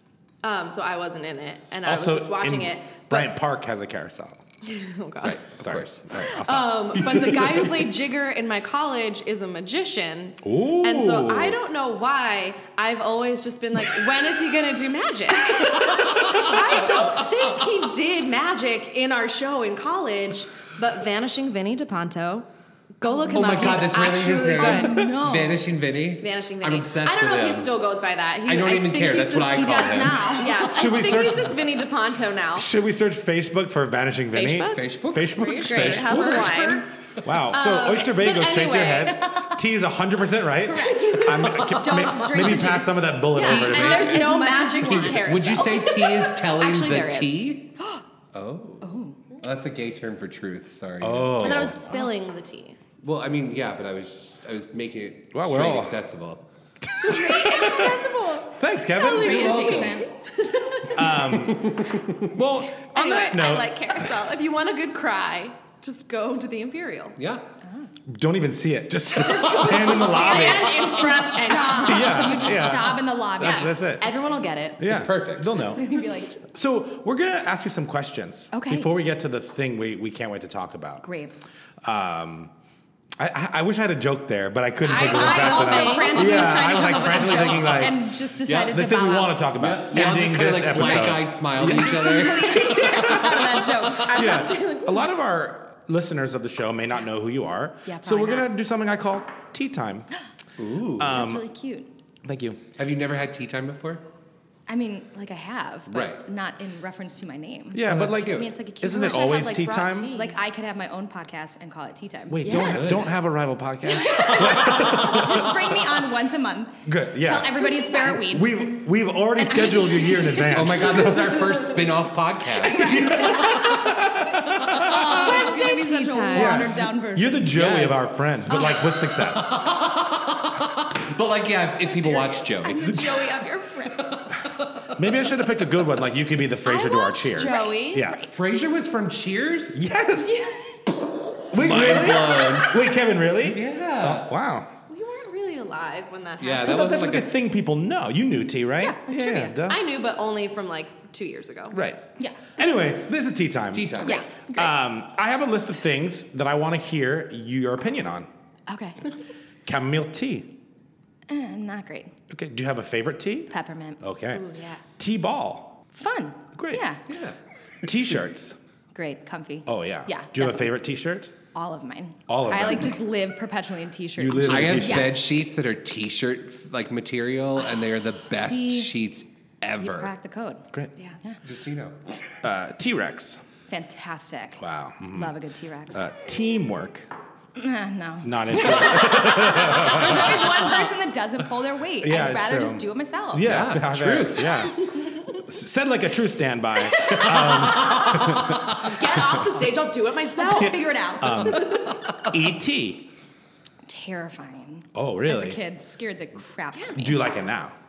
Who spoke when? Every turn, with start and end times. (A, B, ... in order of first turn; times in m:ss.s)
0:00.4-0:03.3 A
0:01.8-0:04.4 B
0:04.6-0:05.4 A
0:05.2-0:07.7 B
0:05.2-0:06.3 C
0:06.2-0:22.5 A
0:10.4-0:11.6 B
0:23.0-0:25.1 A
0:23.0-0:24.0 D
0:23.3-0:27.8 C
0:24.6-0:25.6 D
0:26.2-0:32.7 A
0:28.4-0:30.5 C
0:29.4-0:30.6 D
0:30.7-0:31.7 B
0:32.6-0:36.7 B
0:34.3-0:36.8 A
0:34.7-0:36.6 C
0:36.2-0:36.8 D
0:37.2-0:44.2 B
0:37.5-0:39.2 A
0:40.7-0:45.2 D
0:40.8-0:41.5 A
0:43.3-0:47.5 A
0:43.6-0:44.2 C
0:44.9-0:47.7 C
0:47.8-0:48.0 D
0:48.3-0:51.7 C
0:48.8-0:49.2 D
0:51.0-0:51.9 B
0:51.4-0:52.8 A
0:53.0-0:56.4 C
0:55.3-0:56.0 B
0:57.0-0:58.0 B
0:57.0-1:00.1 D
0:58.6-0:59.8 B
0:58.9-1:01.0 A
0:59.2-1:00.0 C
1:00.9-1:04.2 B
1:01.4-1:02.3 C
1:02.8-1:07.2 A
1:07.2-1:07.4 C
1:07.6-1:07.9 D
1:08.1-1:14.1 B
1:09.1-1:13.8 D
1:09.5-1:12.7 A
1:13.4-1:14.8 A
1:14.8-1:21.0 B
1:14.8-1:15.6 C
1:15.7-1:16.4 D
1:18.5-1:18.9 D
1:21.0-1:21.4 D
1:21.8-1:22.5 B
1:23.2-1:33.4 B
1:24.8-1:27.6 A
1:24.8-1:29.4 D
1:29.5-1:33.0 C
1:30.8-1:34.4 D
1:33.9-1:35.1 A
1:34.1-1:40.1 B
1:37.8-1:38.5 D
1:40.6-1:41.2 C
1:41.0-1:41.5 B
1:41.0-1:41.9 D
1:42.2-1:42.6 B
1:42.8-1:44.0 C
1:44.7-1:49.5 D
1:45.9-1:46.2 C
1:47.7-1:50.1 B
1:47.8-1:48.5 C
1:48.8-1:50.4 A
1:50.0-1:52.9 D
1:52.3-1:55.7 B
1:52.5-1:53.1 C
1:53.8-1:58.7 D
1:56.8-2:01.6 B
1:59.4-2:01.0 D
2:00.5-2:03.0 C
2:02.6-2:05.2 B
2:02.6-2:07.5 D
2:04.9-2:06.7 A
2:06.3-2:09.5 B
2:07.5-2:08.0 C
2:09.1-2:13.3 C
2:11.9-2:14.2 D
2:14.9-2:18.2 B
2:16.7-2:18.1 A
2:16.7-2:18.1 D
2:18.3-2:19.8 C
2:19.7-2:20.4 B
2:20.2-2:20.8 D
2:21.4-2:22.8 C
2:21.5-2:24.7 B
2:23.4-2:24.3 C
2:24.9-2:27.2 A
2:26.4-2:27.3 C
2:26.6-2:29.8 B
2:28.8-2:31.8 A
2:31.7-2:38.3 B
2:32.2-2:32.5 D
2:33.7-2:34.2 C
2:34.0-2:34.7 D
2:38.7-2:39.0 D
2:39.6-2:40.6 B
2:41.3-2:42.1 D
2:42.3-2:45.8 B
2:43.5-2:44.0 D
2:44.3-2:44.8 A
2:45.9-2:47.0 D
2:46.5-2:46.8 B
2:47.1-2:47.4 C
2:47.8-2:48.6 B
2:48.9-2:50.7 D
2:49.6-2:51.3 B
2:51.5-2:55.2 D
2:52.3-2:53.0 B
2:54.2-2:55.2 B
2:54.4-3:00.1 C
2:58.3-2:58.9 D
2:59.8-3:00.6 D
3:01.4-3:02.0 C
3:02.4-3:03.4 B
3:03.7-3:04.6 D
3:04.6-3:05.3 B
3:05.1-3:06.1 D
3:05.9-3:07.1 B
3:07.6-3:13.5 D
3:08.2-3:10.7 B
3:12.0-3:18.7 B
3:13.4-3:14.7 C
3:16.9-3:22.0 A
3:17.9-3:18.7 C
3:20.3-3:21.6 D
3:20.5-3:23.1 B
3:23.8-3:27.4 D
3:24.9-3:25.6 B
3:27.0-3:27.8 B